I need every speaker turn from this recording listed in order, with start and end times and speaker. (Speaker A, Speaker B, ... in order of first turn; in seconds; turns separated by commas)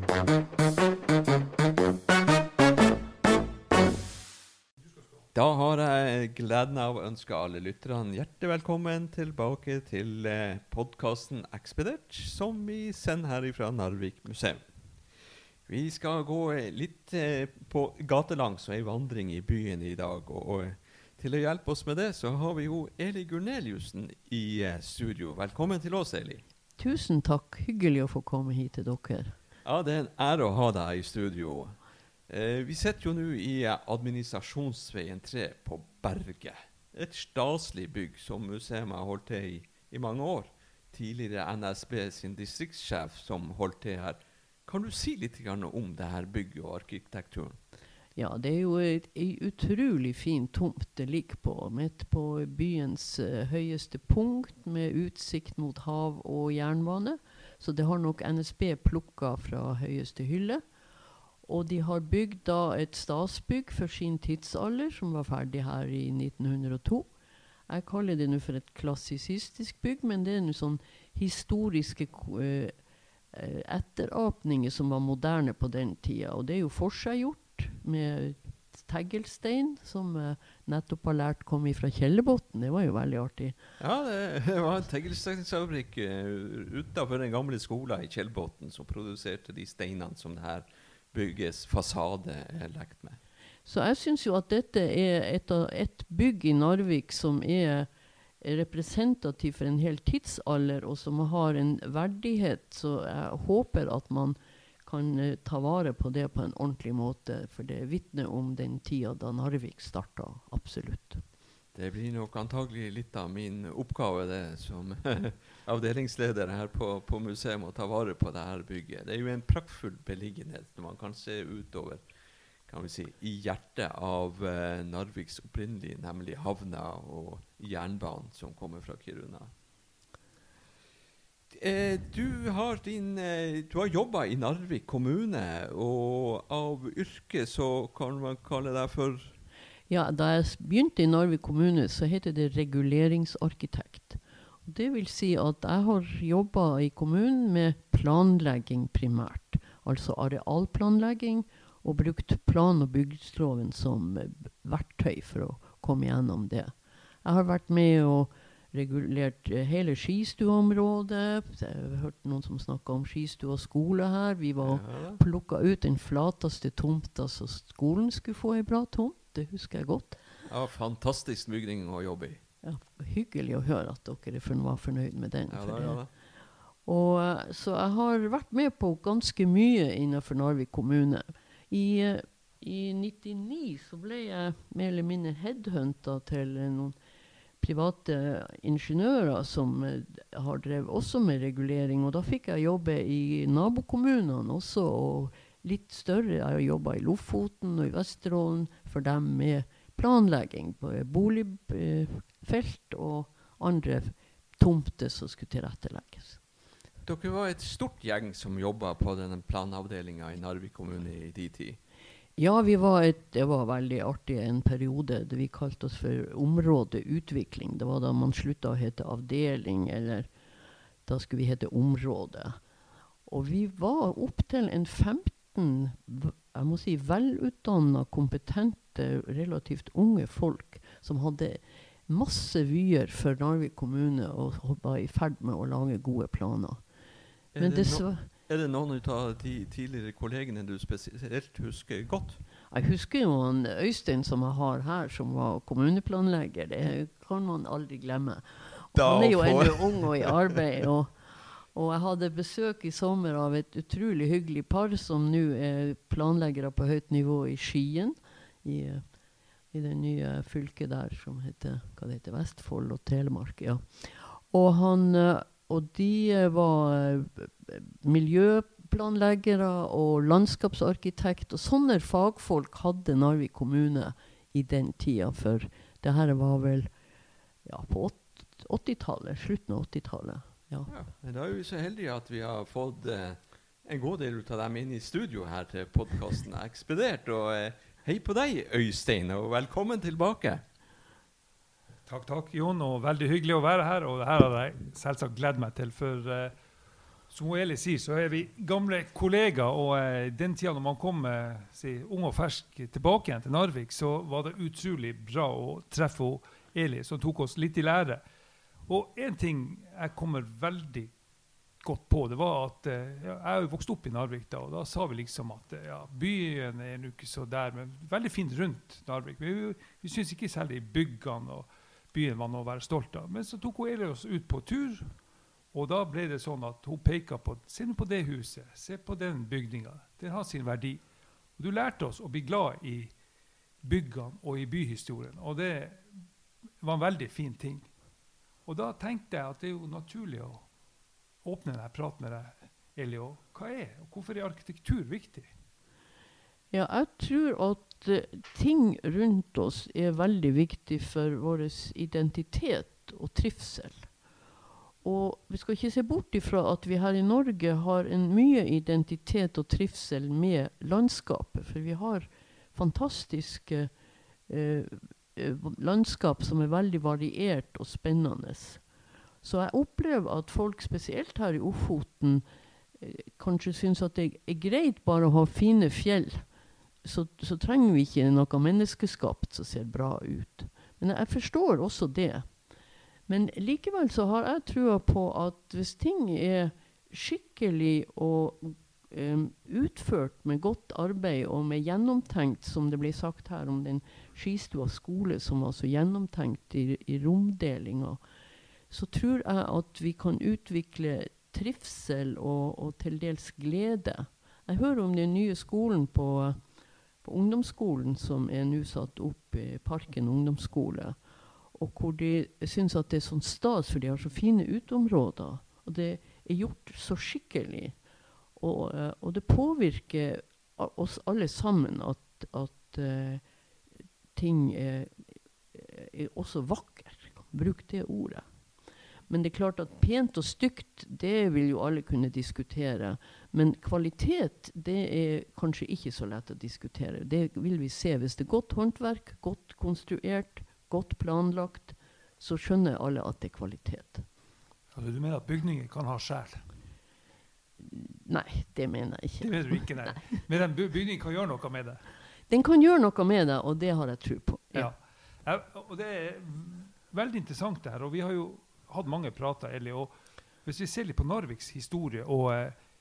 Speaker A: 5.3-26.4, Speaker B: 26.8-29.4, Speaker A: 29.6-47.6, Speaker B: 48.1-60.6, Speaker B: 61.4-67.1, Speaker B: 67.7-72.7, Speaker B: 73.3-83.6, Speaker A: 83.8-93.2, Speaker B: 93.6-97.9, Speaker B: 98.4-111.2, Speaker A: 111.7-129.5, Speaker A: 131.5-139.4, Speaker B: 139.9-170.2, Speaker A: 164.6-165.2, Speaker A: 170.4-172.4, Speaker B: 172.6-176.0, Speaker A: 175.5-176.1, Speaker B: 176.8-186.9, Speaker B: 187.6-206.4, Speaker A: 207.0-211.8, Speaker B: 212.4-220.3, Speaker B: 221.1-222.6, Speaker B: 223.2-236.8, Speaker A: 237.5-242.4, Speaker B: 237.6-238.3, Speaker B: 242.7-259.1, Speaker A: 248.9-250.4, Speaker B: 259.7-276.9, Speaker B: 277.6-280.9, Speaker A: 280.9-290.6, Speaker C: 292.1-296.5, Speaker C: 297.3-308.2, Speaker C: 308.9-311.1, Speaker C: 311.8-325.1, Speaker C: 325.7-331.0, Speaker C: 331.6-333.1, Speaker C: 333.8-336.2, Speaker C: 336.8-337.9, Speaker C: 338.6-340.7, Speaker C: 341.4-345.5, Speaker B: 346.7-354.1, Speaker B: 355.0-363.9, Speaker B: 364.5-368.8, Speaker B: 369.4-372.4, Speaker B: 373.0-376.4, Speaker B: 377.0-382.5, Speaker B: 383.3-398.2, Speaker B: 398.9-406.6, Speaker B: 407.2-411.2, Speaker B: 411.7-418.0, Speaker B: 418.6-423.4, Speaker B: 424.3-428.4, Speaker B: 429.3-444.2, Speaker C: 444.9-446.7, Speaker B: 447.8-450.4, Speaker C: 449.4-452.1, Speaker B: 452.5-454.9, Speaker C: 454.7-460.1, Speaker C: 460.6-462.8